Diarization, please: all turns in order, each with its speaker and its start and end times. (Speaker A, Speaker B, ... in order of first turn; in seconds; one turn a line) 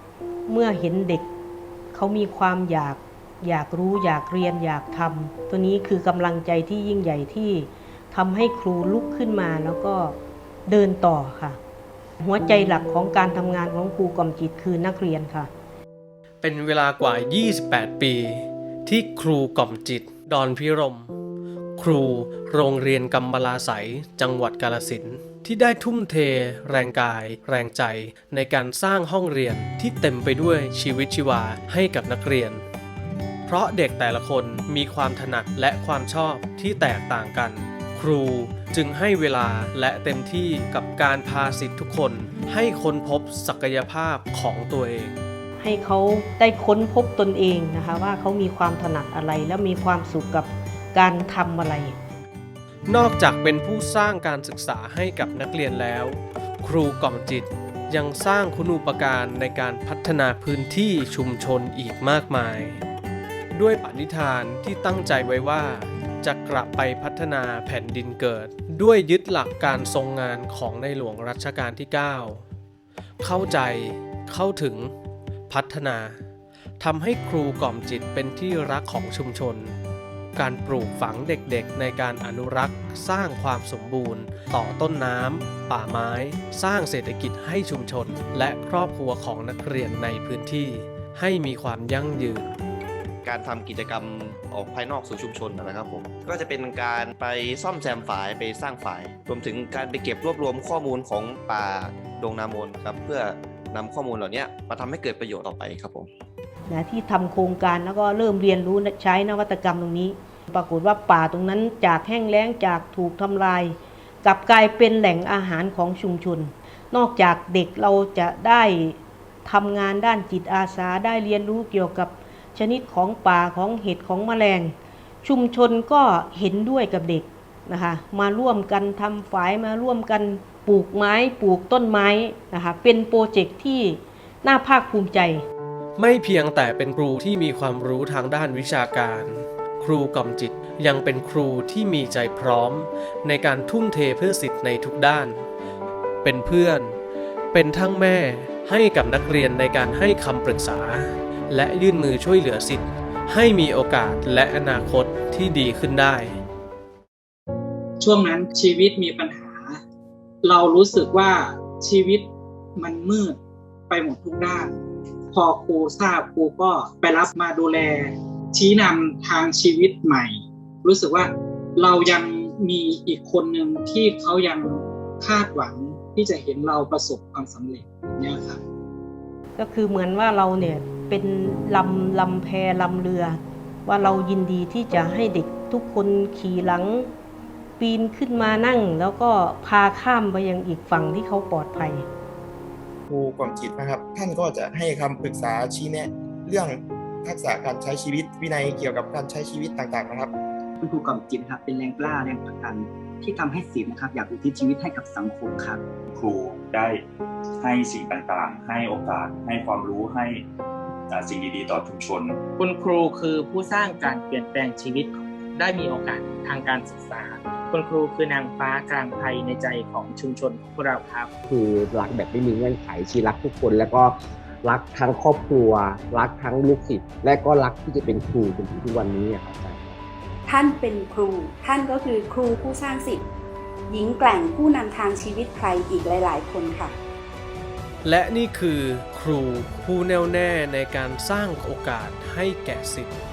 Speaker A: 0.5-1.3
Speaker A: 1.9-11.6
Speaker A: 12.2-15.5
Speaker B: 16.4-21.1
Speaker B: 21.8-32.6
Speaker B: 33.5-45.2
Speaker A: 45.6-52.0
Speaker B: 52.9-62.8
Speaker B: 63.5-72.4
Speaker B: 73.2-74.9
Speaker B: 75.5-76.2
Speaker B: 76.8-79.8
Speaker B: 80.4-92.5
Speaker C: 93.2-106.1
Speaker A: 106.7-135.4
Speaker B: 136.0-145.5
Speaker B: 146.2-147.0
Speaker B: 147.5-156.4
Speaker D: 158.0-159.8
Speaker D: 160.4-163.4
Speaker D: 163.9-164.8
Speaker D: 165.3-178.6
Speaker A: 179.6-187.1
Speaker A: 187.8-192.1
Speaker E: 193.1-200.3
Speaker F: 200.8-205.8
Speaker G: 206.1-207.0
Speaker G: 207.6-210.4
Speaker G: 211.1-212.4
Speaker H: 212.6-221.3
Speaker I: 221.5-224.1
Speaker I: 224.6-230.0
Speaker J: 230.5-233.2
Speaker J: 233.9-237.0
Speaker B: 238.0-243.2